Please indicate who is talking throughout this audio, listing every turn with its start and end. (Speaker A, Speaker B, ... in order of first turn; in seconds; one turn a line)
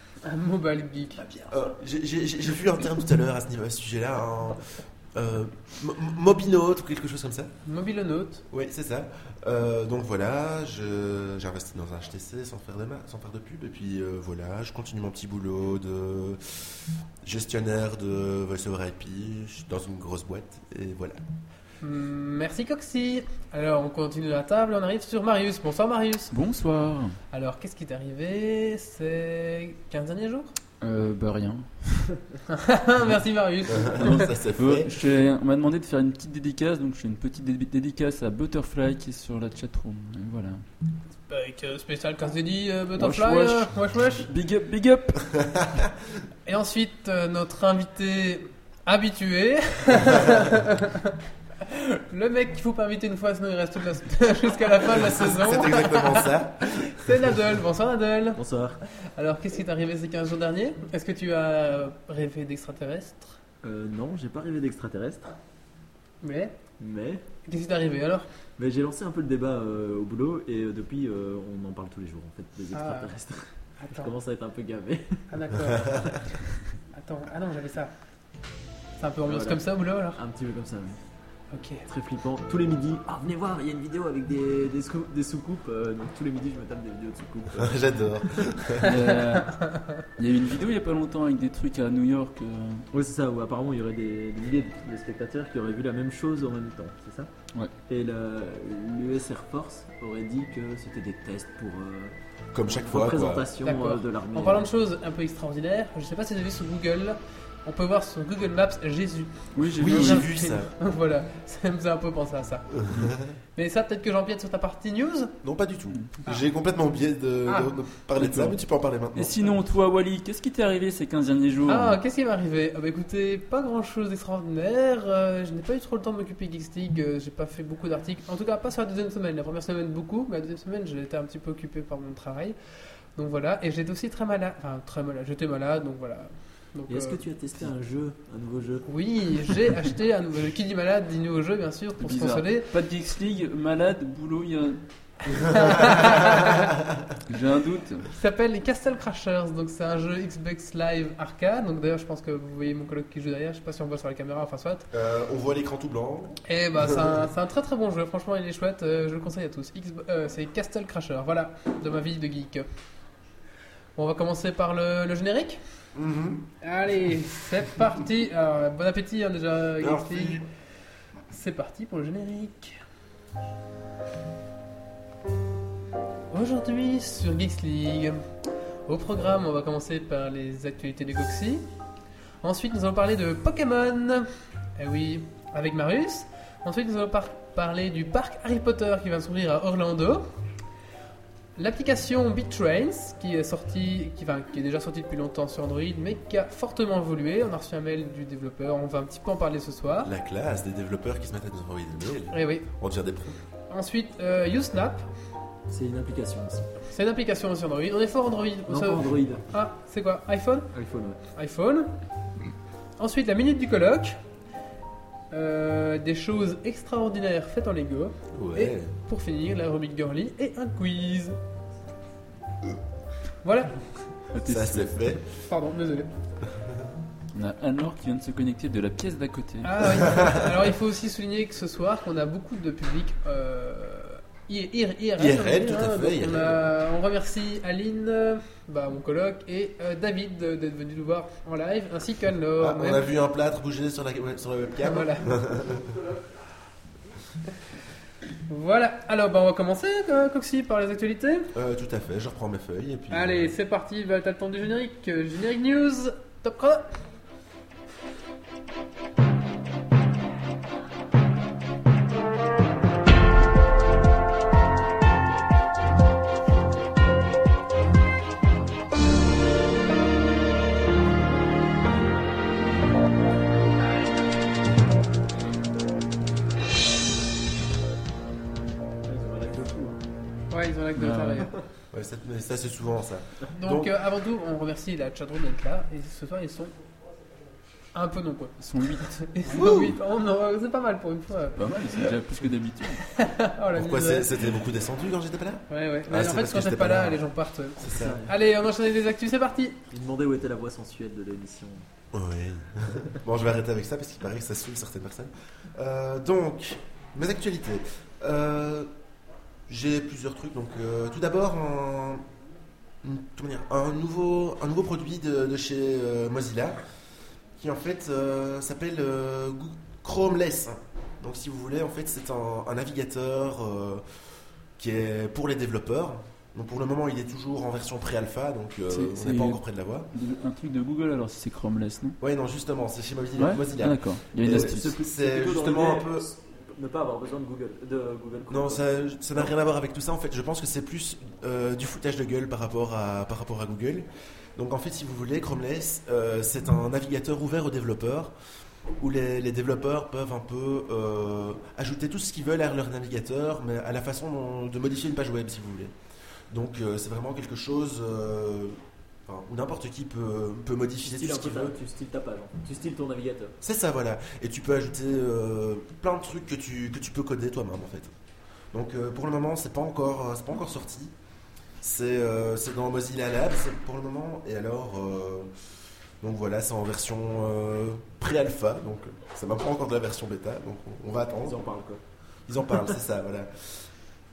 Speaker A: 0.2-1.2
Speaker B: 1.5-7.5
Speaker A: 7.7-8.4
Speaker B: 8.5-16.7
Speaker B: 17.2-21.2
Speaker A: 21.8-26.3
Speaker C: 26.3-27.2
Speaker A: 27.3-30.5
Speaker C: 30.8-32.2
Speaker A: 32.5-34.3
Speaker B: 33.7-34.9
Speaker C: 34.0-40.6
Speaker A: 41.3-44.3
Speaker C: 43.0-45.4
Speaker A: 46.5-58.4
Speaker B: 54.9-57.2
Speaker D: 58.4-58.8
Speaker A: 59.2-63.4
Speaker D: 63.6-65.3
Speaker A: 66.2-66.5
Speaker D: 66.8-67.2
Speaker A: 67.5-68.3
Speaker D: 68.6-75.3
Speaker A: 72.7-73.1
Speaker A: 73.8-74.1
Speaker A: 75.3-76.1
Speaker A: 76.9-77.9
Speaker A: 79.0-80.2
Speaker D: 79.3-81.0
Speaker A: 81.5-81.8
Speaker D: 81.9-87.8
Speaker B: 87.6-89.0
Speaker C: 88.8-92.9
Speaker A: 89.3-89.8
Speaker D: 92.9-97.3
Speaker D: 97.9-102.1
Speaker B: 102.5-103.5
Speaker D: 102.7-104.7
Speaker A: 103.6-112.7
Speaker C: 109.5-110.3
Speaker B: 109.8-110.7
Speaker B: 112.8-113.3
Speaker C: 112.9-113.1
Speaker A: 113.6-115.3
Speaker B: 115.4-119.4
Speaker A: 117.5-117.7
Speaker C: 118.2-118.6
Speaker C: 119.1-122.0
Speaker A: 121.7-132.6
Speaker A: 133.2-137.2
Speaker D: 136.9-138.9
Speaker A: 138.9-142.7
Speaker C: 142.0-146.3
Speaker A: 145.5-146.6
Speaker C: 147.3-148.1
Speaker A: 148.1-154.9
Speaker B: 154.9-157.2
Speaker A: 156.4-162.7
Speaker A: 163.9-165.6
Speaker B: 165.9-166.4
Speaker A: 166.6-170.4
Speaker B: 169.8-170.4
Speaker A: 171.3-172.8
Speaker A: 176.3-178.2
Speaker A: 178.9-181.6
Speaker A: 182.4-184.3
Speaker A: 184.8-190.2
Speaker A: 191.6-200.1
Speaker B: 200.0-203.4
Speaker A: 202.3-202.7
Speaker A: 203.7-205.1
Speaker D: 205.7-206.7
Speaker A: 206.9-210.7
Speaker D: 208.7-209.4
Speaker D: 210.7-211.2
Speaker A: 211.3-211.9
Speaker A: 213.0-214.2
Speaker A: 215.3-221.4
Speaker B: 218.3-218.9
Speaker A: 223.4-223.8
Speaker C: 224.3-225.1
Speaker B: 224.4-225.2
Speaker A: 225.5-226.1
Speaker C: 227.3-230.0
Speaker A: 229.6-243.1
Speaker B: 235.2-236.6
Speaker B: 242.6-246.0
Speaker A: 244.8-245.3
Speaker A: 248.5-251.5
Speaker B: 251.6-253.5
Speaker A: 253.1-256.9
Speaker D: 279.1-280.0
Speaker A: 280.5-281.5
Speaker C: 280.9-281.5
Speaker B: 281.9-283.9
Speaker A: 283.6-286.7
Speaker A: 287.9-291.6
Speaker C: 288.6-289.2
Speaker B: 289.5-289.9
Speaker C: 291.6-293.0
Speaker A: 293.1-294.3
Speaker B: 293.7-297.2
Speaker A: 295.7-299.8
Speaker B: 297.8-298.2
Speaker D: 297.9-298.3
Speaker D: 299.9-301.9
Speaker B: 302.1-308.9
Speaker B: 309.7-312.2
Speaker B: 313.0-316.8
Speaker B: 317.6-324.0
Speaker B: 324.8-330.1
Speaker C: 328.9-329.6
Speaker C: 330.1-332.2
Speaker B: 332.2-336.3
Speaker C: 333.4-334.9
Speaker D: 334.4-338.8
Speaker B: 338.5-348.3
Speaker B: 349.0-355.9
Speaker B: 356.5-361.8
Speaker D: 361.0-363.6
Speaker B: 363.6-368.1
Speaker B: 368.7-371.1
Speaker B: 371.8-375.5
Speaker B: 376.2-381.6
Speaker D: 381.4-382.0
Speaker B: 382.5-383.9